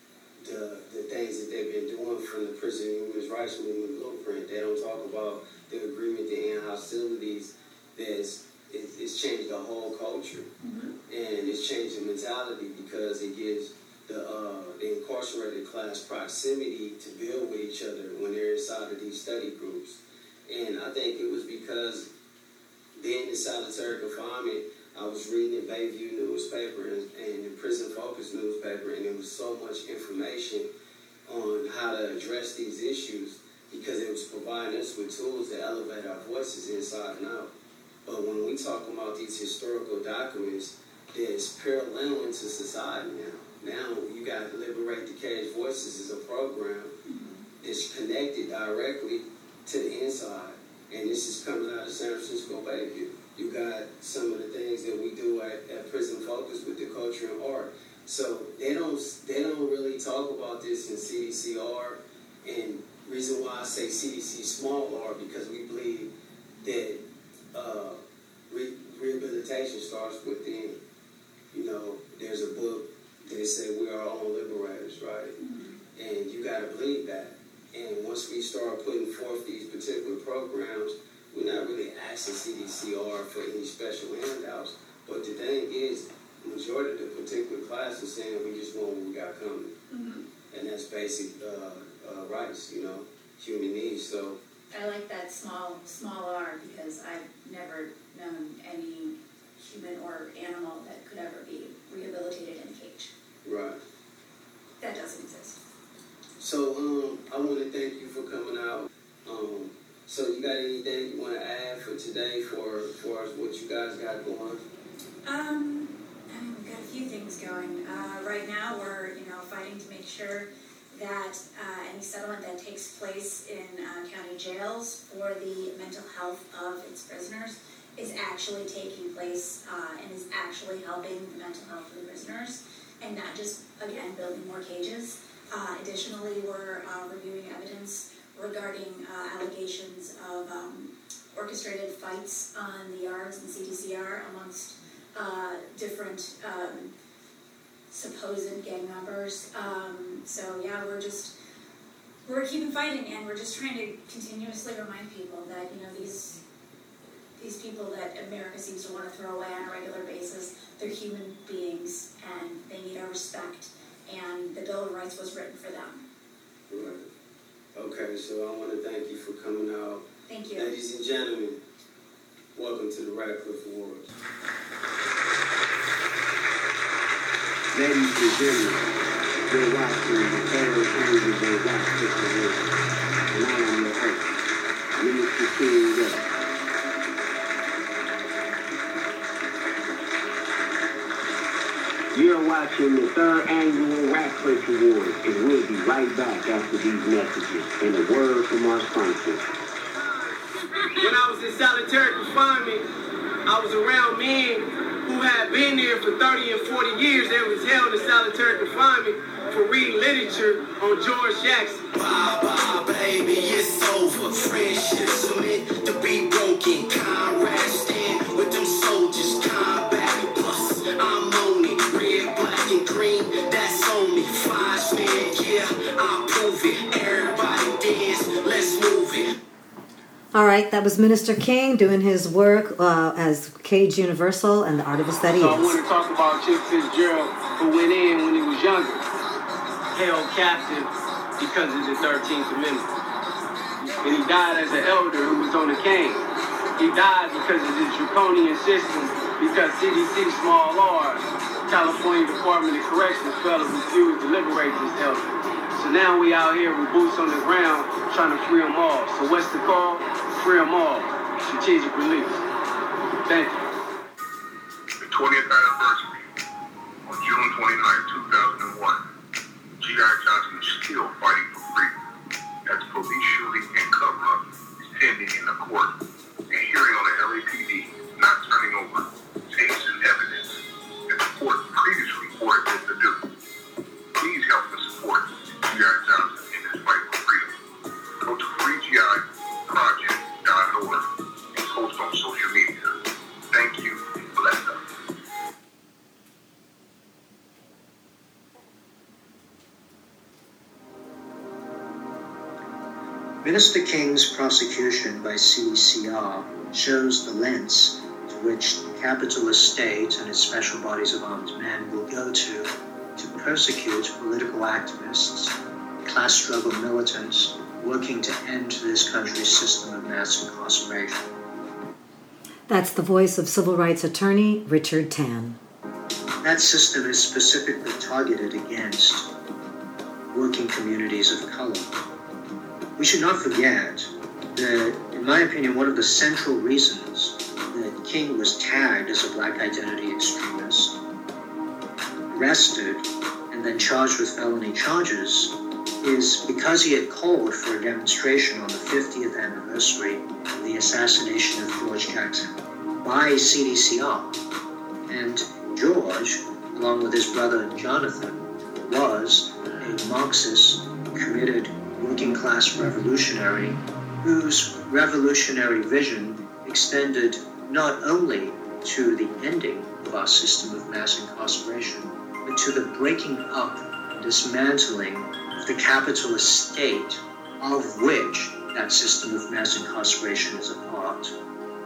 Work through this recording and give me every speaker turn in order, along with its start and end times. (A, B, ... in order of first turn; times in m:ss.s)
0:00.4-0:10.5 A
0:10.6-0:10.9 B
0:11.1-0:22.1 A
0:23.0-0:30.7 A
0:31.3-0:37.5 A
0:38.0-0:47.0 A
0:47.1-0:47.4 B
0:47.6-1:07.0 A
1:07.5-1:08.0 A
1:08.5-1:10.8 A
1:11.5-1:15.4 A
1:15.4-1:15.8 B
1:16.0-1:29.7 A
1:29.9-1:30.2 B
1:30.5-1:34.4 A
1:34.7-1:43.1 B
1:43.4-1:43.8 A
1:44.8-1:45.6 B
1:46.4-1:54.6 A
1:55.2-2:26.9 B
2:27.9-2:31.3 B
2:32.3-2:36.4 B
2:37.4-2:46.0 B
2:46.7-2:47.0 A
2:47.8-2:51.6 A
2:50.3-2:50.7 B
2:52.6-2:54.1 A
2:57.8-2:58.2 A
2:59.8-3:02.5 A
3:21.3-3:22.8 C
3:23.5-3:49.3 C
3:50.3-3:55.8 D
3:55.4-3:59.0 C
4:00.0-4:00.9 C
4:01.4-4:02.8 C
4:04.0-4:06.2 C
4:06.8-4:15.2 C
4:15.8-4:22.4 C
4:23.3-4:23.6 C
4:25.0-4:26.2 E
4:27.1-4:29.0 E
4:29.8-4:32.0 E
4:32.7-4:36.0 E
4:36.5-4:40.5 E
4:41.1-4:43.2 E
4:44.2-4:47.6 E
4:48.2-4:53.0 E
4:53.5-4:54.8 E
5:03.4-5:15.5 F
5:16.1-5:21.3 F
5:22.7-5:25.6 D
5:26.4-5:29.3 F
5:30.3-5:31.9 F
5:33.0-5:40.9 F
5:42.3-5:45.5 F
5:46.0-5:52.5 F
5:53.0-5:54.4 F
5:55.1-6:21.3 F